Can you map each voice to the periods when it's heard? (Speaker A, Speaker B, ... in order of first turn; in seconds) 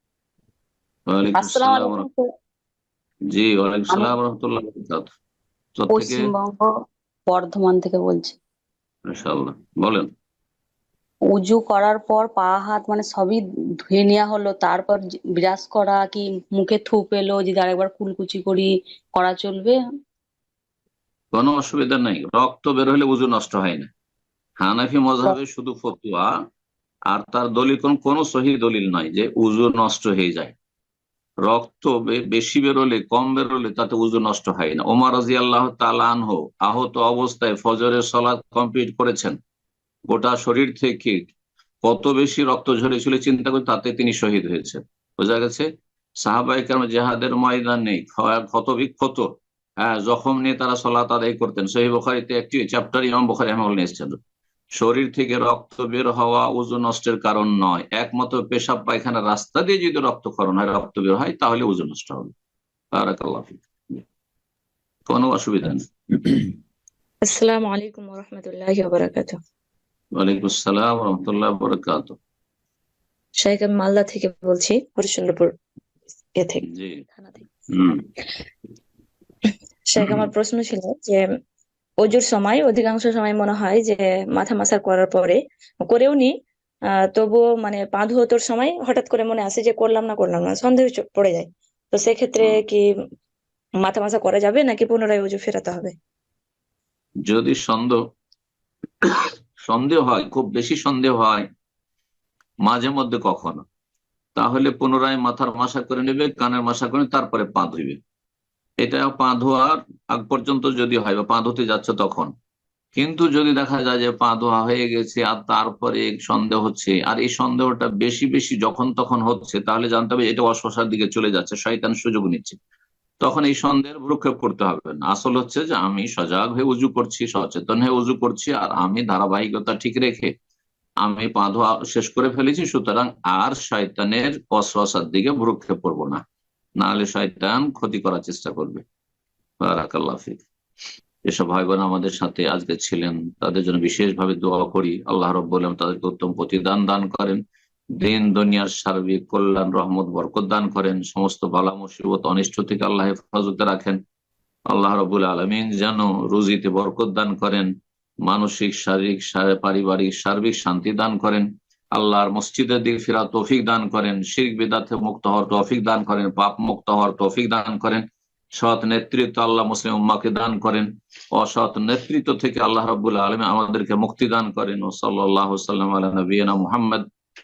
Speaker A: 1.1-2.0, 3.3-5.1, 5.8-6.3, 9.1-10.1, 21.3-23.9, 24.6-26.3, 27.1-30.6, 31.4-39.4, 40.1-41.3, 41.8-45.6, 46.2-49.3, 49.8-54.2, 54.8-62.3, 62.9-64.0, 65.1-66.5, 70.2-72.2, 76.7-77.0, 77.7-78.0, 80.0-80.3, 97.2-98.0, 99.0-101.4, 102.7-103.6, 104.3-108.0, 108.8-112.3, 112.9-122.6, 123.2-130.3, 131.0-136.2, 136.8-138.8, 139.6-140.4, 141.3-147.4, 148.0-154.0, 154.7-157.7, 158.2-168.0, 168.6-177.0
Speaker B: 1.4-2.2, 5.9-6.7, 7.3-8.4, 11.3-19.8
Speaker C: 67.3-69.4, 73.4-75.5, 76.4-76.7, 77.2-77.4, 79.9-81.2, 82.0-86.3, 87.1-92.8, 93.8-95.9